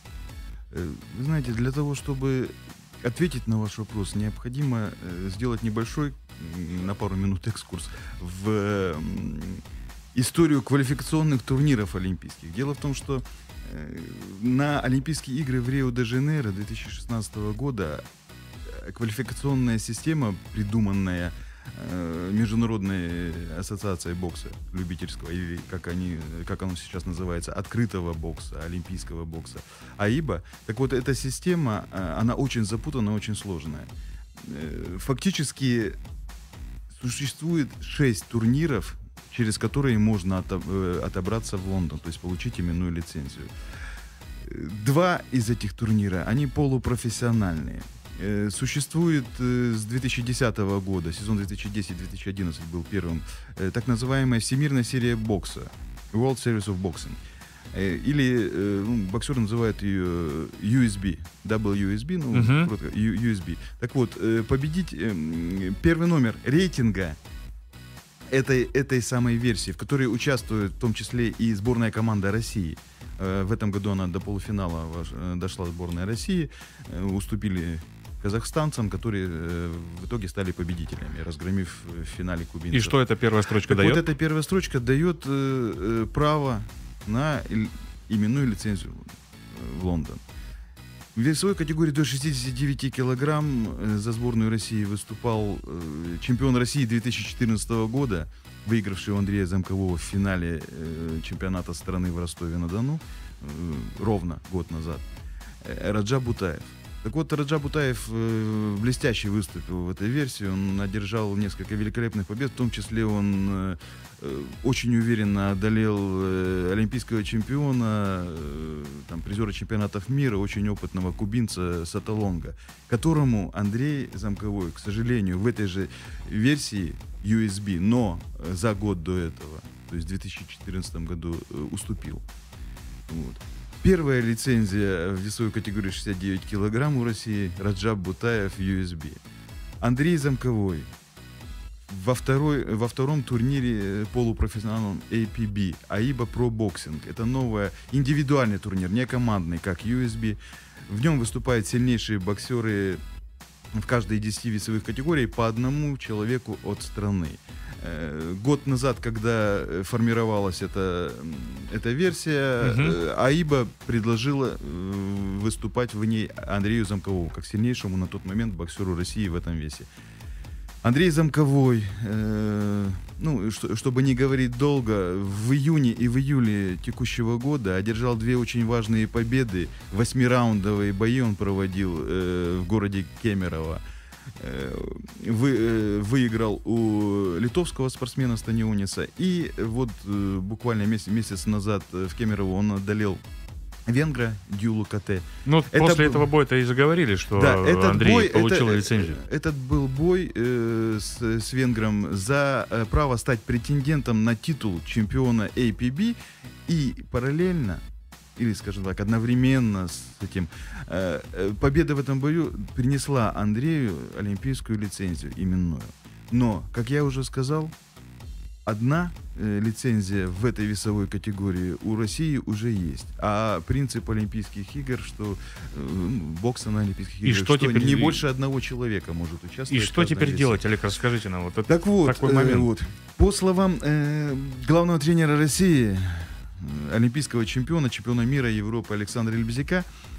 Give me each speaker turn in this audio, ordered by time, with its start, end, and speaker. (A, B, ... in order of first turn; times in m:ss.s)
0:00.7-0:09.6 A
0:10.1-0:18.0 A
0:18.7-0:36.0 A
0:36.9-0:43.5 A
0:44.4-0:57.2 A
0:57.7-1:07.2 A
1:02.3-1:02.7 B
1:08.3-1:23.0 A
1:22.7-1:24.0 B
1:23.7-1:30.2 A
1:31.2-1:45.1 A
1:45.6-2:12.2 A
2:13.1-2:19.2 A
2:19.8-2:20.9 A
2:21.9-2:33.0 A
2:33.7-2:49.9 A
2:42.6-2:43.0 B
2:50.8-3:03.8 A
3:04.4-3:13.2 A
3:13.9-3:16.3 A
3:15.5-3:19.2 B
3:17.4-3:27.8 A
3:28.4-3:37.7 A
3:38.7-3:50.6 A
3:47.2-3:48.2 B
3:49.7-3:52.7 B
3:51.7-3:59.9 A